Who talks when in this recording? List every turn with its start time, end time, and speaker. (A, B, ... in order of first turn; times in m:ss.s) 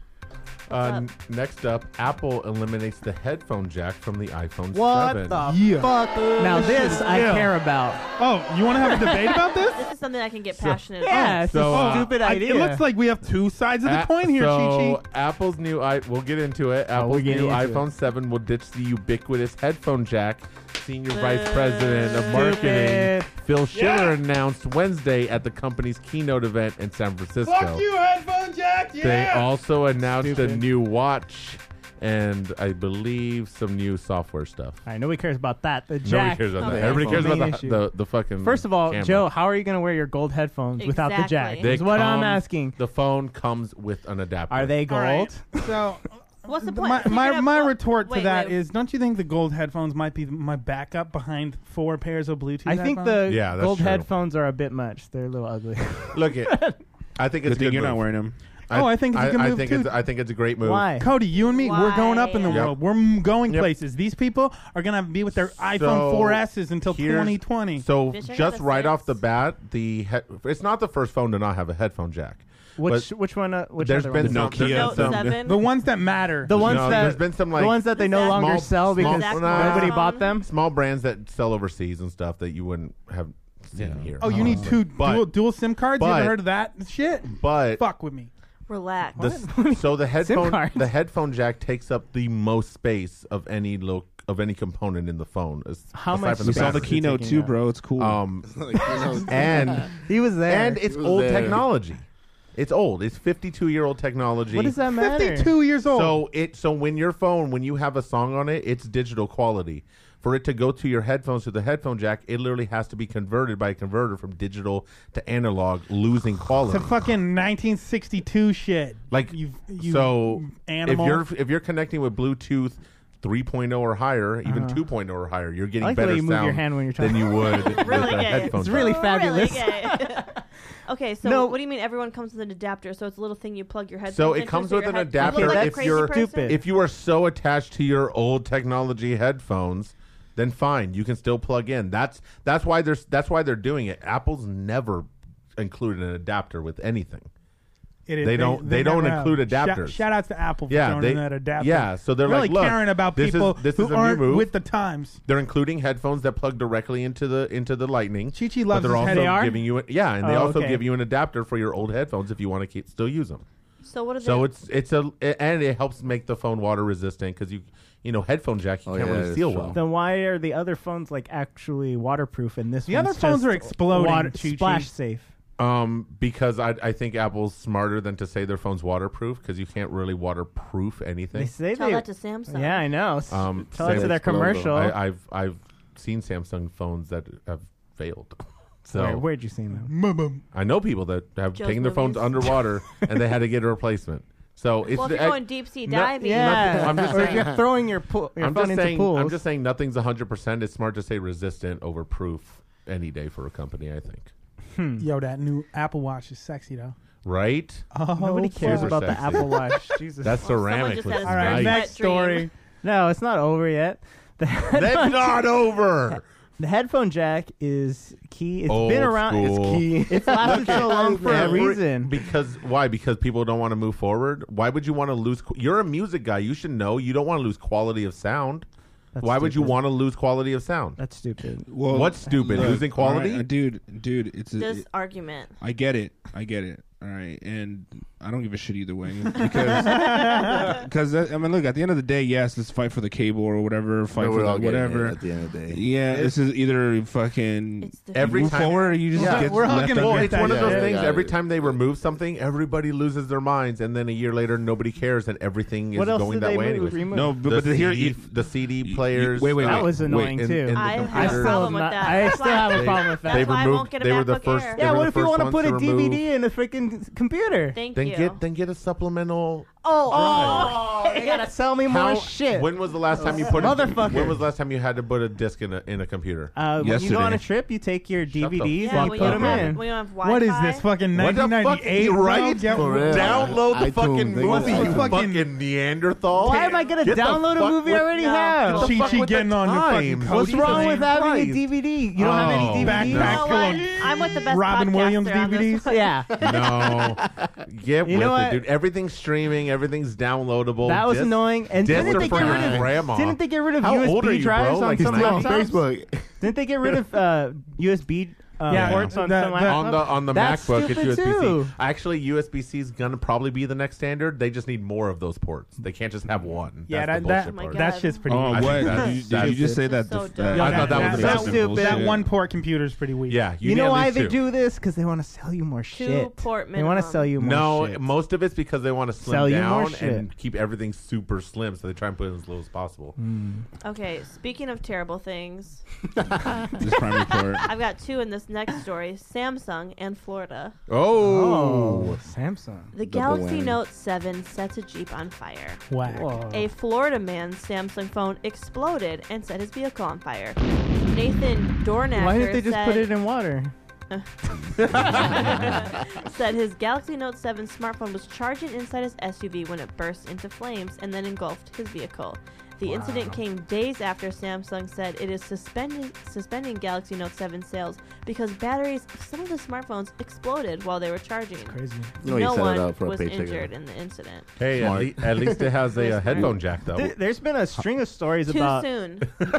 0:00.7-0:05.5 A
0:00.7-0:01.1 B
0:04.7-0:08.0 C
0:05.4-0:07.6 D
0:08.2-0:09.9 D
0:09.8-0:11.5 B
0:10.6-0:10.8 A
0:11.0-0:12.9 C
0:11.1-0:15.0 D
0:11.4-0:12.2 A
0:13.8-0:27.8 A
0:16.9-0:17.9 C
0:21.1-0:22.8 B
0:22.3-0:23.3 C
0:23.7-0:24.2 D
0:27.4-0:29.5 D
0:29.0-0:34.8 A
0:30.2-0:30.6 C
0:34.8-0:42.8 C
0:36.0-0:39.3 A
0:36.6-0:37.1 B
0:36.7-0:37.3 E
0:40.8-0:41.7 B
0:41.6-0:44.8 A
0:44.5-0:45.8 C
0:44.9-0:53.3 D
0:46.4-0:48.6 B
0:52.7-0:56.8 C
0:53.2-0:54.1 A
0:56.1-1:01.0 A
0:57.4-0:58.4 F
0:58.7-1:00.0 D
1:00.6-1:01.1 C
1:01.0-1:07.9 D
1:01.4-1:02.7 B
1:02.5-1:03.7 A
1:05.6-1:13.1 A
1:08.0-1:09.2 B
1:12.8-1:14.6 C
1:13.8-1:15.4 A
1:14.2-1:15.4 F
1:14.6-1:15.6 B
1:15.4-1:17.2 D
1:16.4-1:20.5 C
1:16.5-1:26.5 A
1:18.0-1:20.3 B
1:23.8-1:24.7 F
1:24.2-1:28.3 D
1:27.3-1:27.8 A
1:28.7-1:29.2 B
1:29.2-1:30.9 C
1:29.2-1:37.0 A
1:35.9-1:37.6 C
1:36.4-1:38.2 F
1:38.0-1:44.8 A
1:38.4-1:39.9 E
1:39.9-1:40.8 C
1:40.8-1:41.7 E
1:44.5-1:45.6 C
1:44.9-1:46.2 D
1:45.8-1:57.0 A
1:56.7-2:01.3 D
1:59.1-2:09.1 A
2:04.4-2:04.8 C
2:05.8-2:10.4 C
2:07.4-2:16.6 B
2:11.2-2:11.6 C
2:14.1-2:27.3 A
2:15.2-2:16.6 C
2:28.1-2:35.2 D
2:28.2-2:30.1 A
2:30.7-2:34.6 A
2:35.2-2:43.4 A
2:38.3-2:39.5 D
2:38.9-2:40.8 C
2:43.8-2:44.5 B
2:44.2-2:49.8 A
2:48.9-2:49.8 E
2:49.7-2:55.3 C
2:52.9-2:54.9 D
2:55.6-3:01.5 A
3:01.4-3:05.0 C
3:01.7-3:02.9 B
3:03.3-3:09.2 A
3:03.8-3:04.7 E
3:08.9-3:09.9 C
3:09.8-3:10.4 D
3:10.5-3:17.7 A
3:11.5-3:12.6 B
3:14.9-3:17.4 B
3:16.1-3:19.4 C
3:16.9-3:17.6 E
3:18.4-3:24.3 A
3:24.8-3:25.1 C
3:25.0-3:27.0 D
3:27.2-3:27.9 A
3:27.9-3:29.2 D
3:28.2-3:30.4 C
3:28.6-3:31.9 A
3:30.4-3:32.5 B
3:31.2-3:32.5 D
3:32.8-3:35.5 C
3:34.7-3:36.2 A
3:36.6-3:42.1 C
3:38.7-3:48.7 A
3:39.4-3:41.7 E
3:49.2-3:49.8 C
3:49.2-3:51.0 A
3:51.0-3:51.7 C
3:51.7-3:54.9 F
3:51.8-3:53.5 A
3:54.6-3:55.5 B
3:55.6-4:10.6 F
3:59.9-4:00.6 D
4:00.2-4:00.6 B
4:04.2-4:05.9 E
4:06.0-4:06.4 A
4:07.8-4:09.0 B
4:08.1-4:26.2 A
4:09.1-4:10.9 D
4:10.4-4:11.7 E
4:16.0-4:17.4 C
4:17.1-4:20.6 F
4:19.5-4:23.6 C
4:20.7-4:24.8 B
4:24.8-4:27.8 C
4:27.7-4:28.4 B
4:28.0-4:30.9 A
4:29.8-4:31.5 B
4:30.1-4:34.4 C
4:31.8-4:36.5 A
4:36.6-4:39.8 C
4:36.8-4:37.4 F
4:38.3-4:39.8 A
4:38.8-4:40.9 B
4:40.2-4:43.6 D
4:41.1-4:48.2 A
4:42.7-4:45.2 E
4:44.4-4:45.5 D
4:46.4-4:49.0 C
4:46.5-4:46.9 B
4:47.9-4:49.3 B
4:48.6-4:51.1 D
4:48.7-4:53.8 A
4:50.3-4:53.5 C
4:52.3-4:56.0 D
4:53.1-4:56.2 B
4:55.9-4:56.4 C
4:56.4-5:05.7 A
4:56.5-4:57.2 E
4:58.0-4:58.6 C
5:00.8-5:05.8 C
5:01.9-5:03.0 E
5:05.0-5:06.5 E
5:06.4-5:11.7 C
5:08.7-5:10.0 D
5:08.7-5:09.1 F
5:09.6-5:21.8 A
5:16.9-5:19.1 D
5:17.4-5:18.3 B
5:18.3-5:22.3 F
5:18.9-5:21.0 B
5:20.5-5:23.5 D
5:20.9-5:22.1 C
5:23.3-5:24.4 A
5:23.6-5:28.1 C
5:25.9-5:27.3 B
5:27.4-5:33.2 A
5:29.2-5:30.3 C
5:33.2-5:33.6 C
5:33.8-5:35.8 B
5:36.7-5:37.7 F
5:37.3-5:40.8 B
5:40.9-5:42.2 A
5:41.2-5:42.9 C
5:42.9-5:45.9 B
5:43.0-5:43.8 E
5:45.9-5:46.5 D
5:46.0-5:46.7 C
5:46.5-5:53.1 B
5:52.2-5:53.7 C
5:54.1-6:14.5 B
5:54.8-5:55.7 C
5:55.3-5:55.8 F
6:02.8-6:03.4 C
6:11.7-6:12.1 C
6:12.2-6:13.7 E
6:14.6-6:17.2 A
6:14.7-6:15.7 E
6:15.8-6:16.6 B
6:16.9-6:18.9 C
6:18.5-6:19.3 B